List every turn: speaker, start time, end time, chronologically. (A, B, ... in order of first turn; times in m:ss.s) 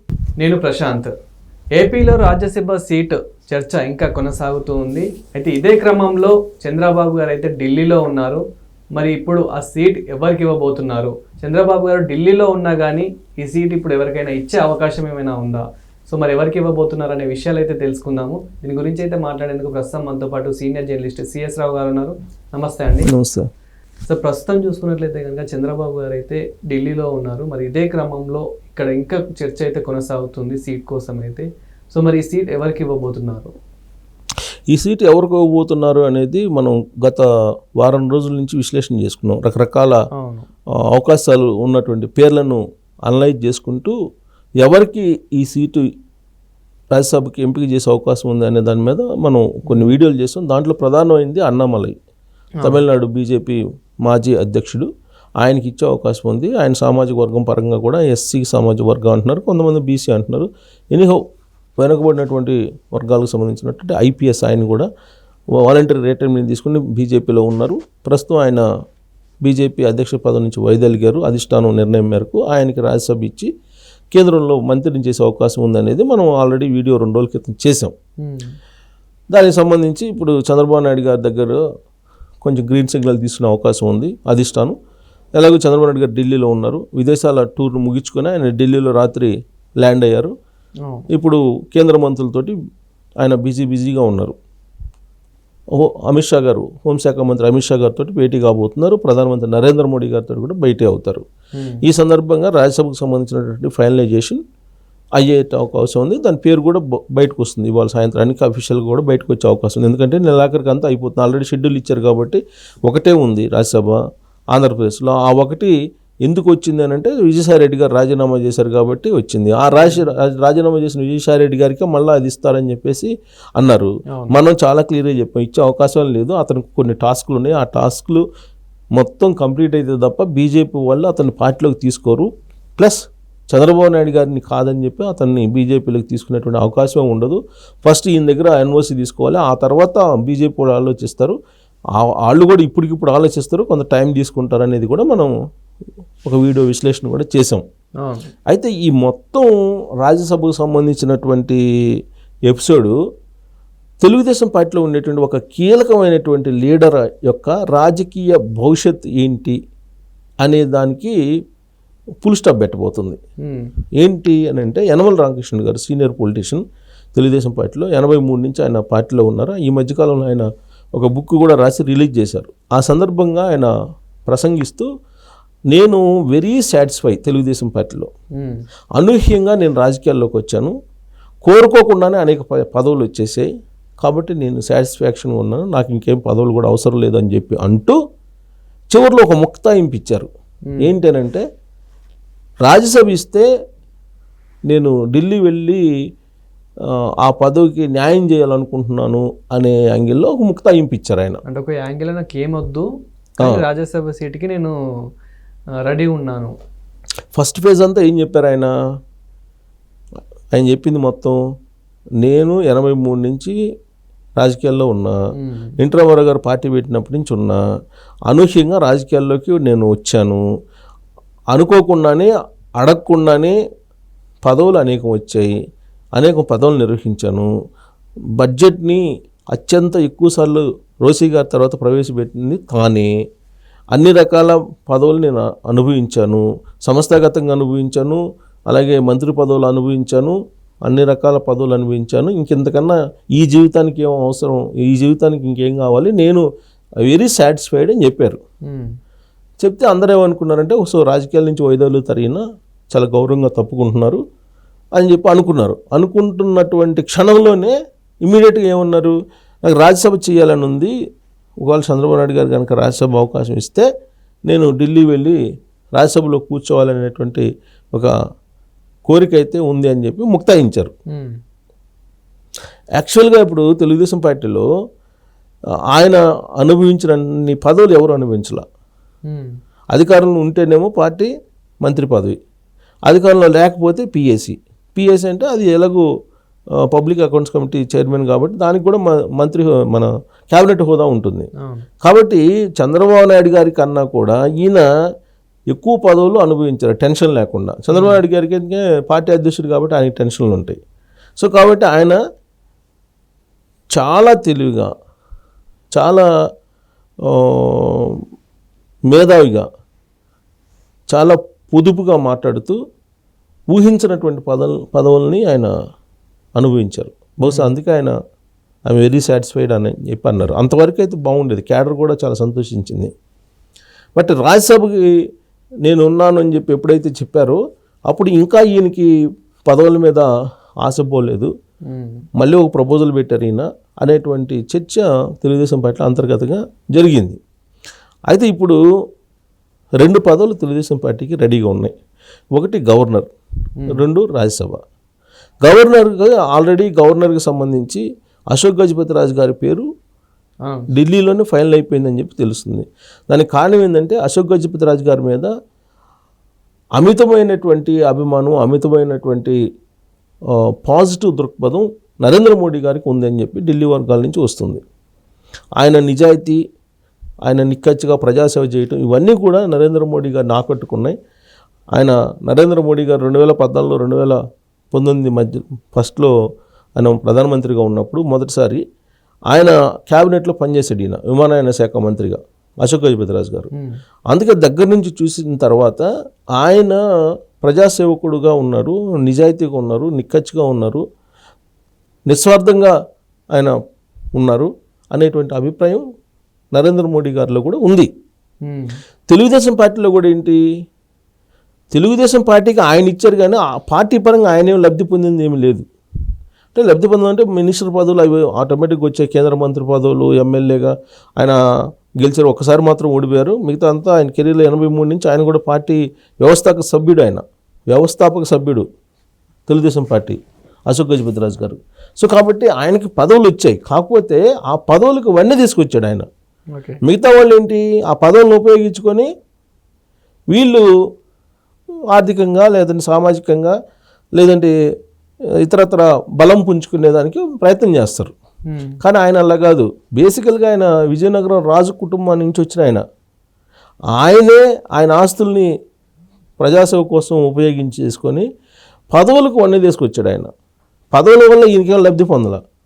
0:00.4-0:01.1 A
0:01.8-0:08.4 A
0:09.0-0:23.1 A
0:23.1-0:23.5 B
0:24.1-0:33.5 A
0:34.7-0:37.2 B
0:37.8-0:40.0 B
0:40.2-0:40.5 A
0:40.9-0:44.0 B
0:44.6-0:45.8 B
0:47.0-0:52.0 B
0:49.7-0:50.0 A
0:52.6-0:54.9 B
0:55.4-1:01.2 B
1:01.8-1:04.9 B
1:05.6-1:08.6 B
1:09.4-1:13.5 B
1:14.1-1:17.9 B
1:18.2-1:18.5 A
1:19.3-1:21.6 B
1:22.4-1:24.8 B
1:25.4-1:29.3 B
1:29.8-1:30.3 B
1:31.1-1:32.5 B
1:33.2-1:34.4 B
1:35.8-1:41.2 B
1:41.6-1:41.8 A
1:41.8-1:44.4 B
1:45.2-1:54.0 B
1:54.5-1:55.7 B
1:56.2-2:08.2 B
1:59.8-2:00.1 A
2:09.0-2:21.4 B
2:22.0-2:25.3 B
2:26.2-2:27.6 B
2:28.0-2:28.3 A
2:28.5-2:29.5 B
2:30.0-2:31.6 B
2:32.5-2:33.0 B
2:34.0-2:39.6 B
2:40.4-2:41.2 B
2:42.2-2:43.2 B
2:43.4-2:43.7 A
2:44.0-2:46.6 B
2:47.2-2:53.7 B
2:54.3-2:54.9 B
2:55.7-2:58.1 B
2:59.0-3:00.7 B
3:01.4-3:03.5 B
3:04.0-3:08.0 B
3:08.9-3:10.3 B
3:10.8-3:11.4 B
3:12.6-3:13.4 B
3:14.7-3:15.8 B
3:17.2-3:21.4 B
3:21.5-3:22.9 A
3:23.4-3:24.7 A
3:25.8-3:26.5 A
3:27.4-3:28.7 B
3:30.5-3:31.4 B
3:32.2-3:33.6 B
3:34.4-3:35.1 B
3:35.4-3:35.8 A
3:35.8-3:37.6 B
3:38.3-3:40.4 B
3:41.5-3:43.6 B
3:44.5-3:45.5 B
3:46.2-3:47.5 B
3:48.4-3:49.0 B
3:49.5-3:53.1 B
3:53.9-4:00.4 B
4:00.9-4:06.4 B
4:07.1-4:08.4 B
4:09.6-4:12.4 B
4:12.9-4:14.2 B
4:15.0-4:17.7 B
4:18.2-4:19.2 B
4:19.7-4:20.9 B
4:21.6-4:23.9 B
4:24.5-4:25.4 B
4:26.0-4:28.1 B
4:29.1-4:30.9 B
4:33.0-4:34.6 B
4:35.9-4:38.6 B
4:39.9-4:41.3 B
4:41.8-4:42.4 B
4:43.1-4:46.0 B
4:46.9-4:51.5 B
4:52.0-4:54.8 B
4:55.7-5:00.8 B
4:57.9-4:58.2 A
5:01.4-5:02.2 B
5:04.0-5:04.9 B
5:06.0-5:06.2 B
5:07.3-5:08.2 B
5:09.1-5:09.7 B
5:11.1-5:12.8 B
5:13.7-5:15.7 B
5:16.6-5:18.2 B
5:17.5-5:17.7 A
5:18.9-5:23.1 B
5:24.2-5:25.1 B
5:25.8-5:29.1 B
5:29.7-5:30.3 B
5:30.8-5:31.5 B
5:31.9-5:32.2 A
5:32.4-5:37.4 B
5:38.3-5:38.8 B
5:40.0-5:41.9 B
5:42.6-5:43.3 B
5:43.9-5:44.8 B
5:45.6-5:49.8 B
5:50.9-5:55.5 B
5:57.0-5:59.6 B
6:00.8-6:04.8 B
6:05.8-6:06.6 B
6:07.5-6:11.2 B
6:12.0-6:14.4 B
6:14.9-6:16.3 B
6:17.0-6:18.8 B
6:19.5-6:23.7 B
6:24.3-6:26.1 B
6:26.6-6:27.0 B
6:27.6-6:31.0 B
6:32.3-6:32.9 B
6:34.4-6:36.0 B
6:36.7-6:38.1 B
6:38.7-6:39.0 A
6:39.3-6:40.6 B
6:41.9-6:45.8 B
6:46.8-6:51.6 B
6:52.2-6:58.8 B
6:59.7-7:06.2 B
7:07.0-7:09.3 B
7:10.5-7:10.9 B
7:12.1-7:13.8 B
7:14.4-7:14.7 B
7:15.6-7:18.3 B
7:18.7-7:19.0 A
7:19.0-7:23.0 B
7:24.2-7:25.7 B
7:26.6-7:28.5 B
7:29.1-7:30.5 B
7:31.1-7:32.6 B